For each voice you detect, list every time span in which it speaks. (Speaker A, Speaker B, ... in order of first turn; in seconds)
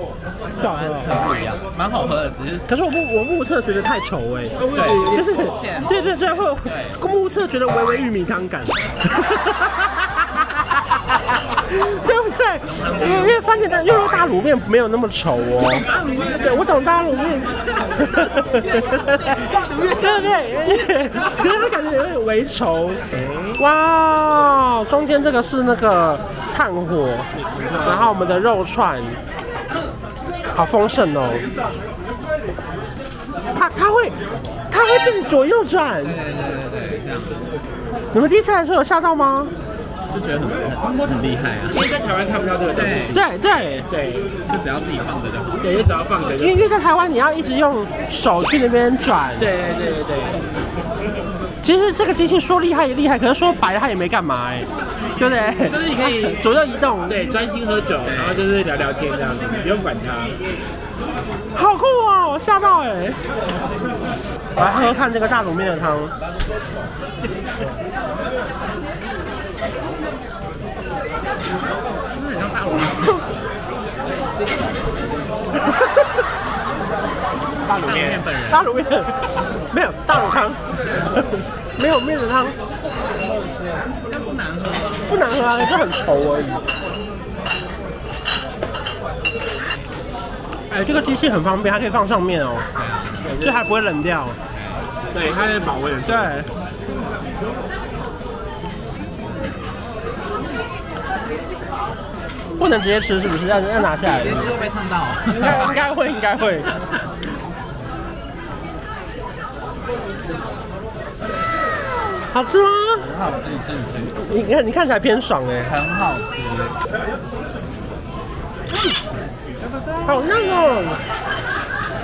Speaker A: 0.5-2.7, 4.7-7.0, 12.6-13.4, 36.0-37.5, 40.1-41.9, 42.7-43.2, 44.4-45.6, 58.0-58.5, 72.0-73.2, 77.8-78.7, 84.0-85.2, 92.7-93.3, 94.5-95.1, 99.1-99.8, 104.2-105.7, 112.9-114.3, 115.6-116.8, 119.6-120.4
Speaker B: 0.6-1.1, 2.7-23.0, 23.6-27.3, 27.8-29.2, 30.5-31.4, 33.5-34.2, 34.7-36.2, 38.1-39.5, 43.1-43.9, 46.4-49.5, 51.6-57.2, 61.5-63.2, 64.5-66.1, 78.5-82.6, 85.1-86.7, 90.7-92.7, 93.4-94.4, 96.0-96.5, 102.6-104.5, 105.2-106.7, 112.3-113.1, 114.3-115.7, 120.0-121.0
Speaker C: 4.6-5.5, 23.1-23.6, 27.4-28.1, 41.7-43.2, 43.9-44.3, 45.6-46.5, 49.4-50.5, 55.5-56.4, 57.1-60.4, 77.7-78.3, 93.2-93.6, 95.1-96.3